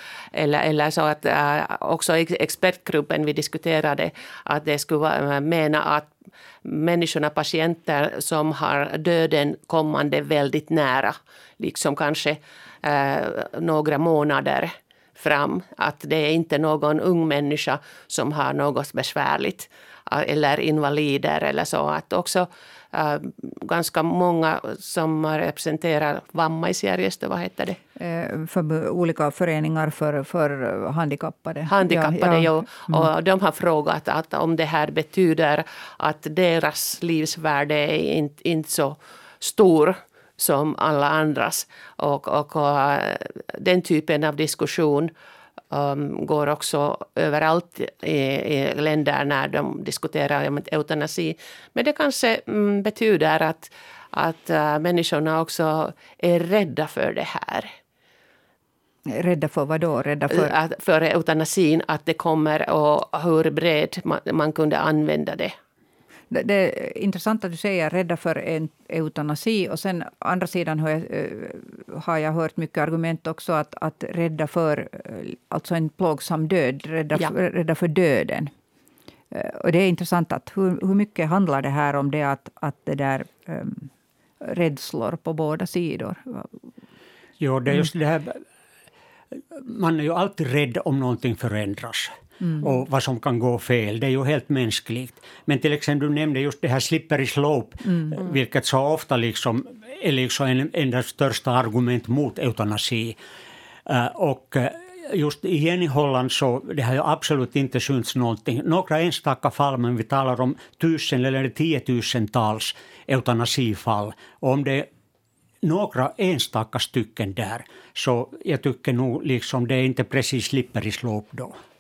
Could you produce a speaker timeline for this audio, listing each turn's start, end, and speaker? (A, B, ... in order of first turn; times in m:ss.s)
0:00.3-0:06.1 A
0:06.6-0:27.8 A
0:28.0-0:33.1 B
0:31.7-0:45.1 A
0:45.7-0:57.7 A
0:59.1-1:00.5 B
1:00.3-1:05.5 A
1:06.3-1:18.5 B
1:19.3-1:26.5 B
1:27.4-1:28.4 C
1:29.3-1:43.2 C
1:43.8-1:54.9 C
1:55.6-2:01.5 C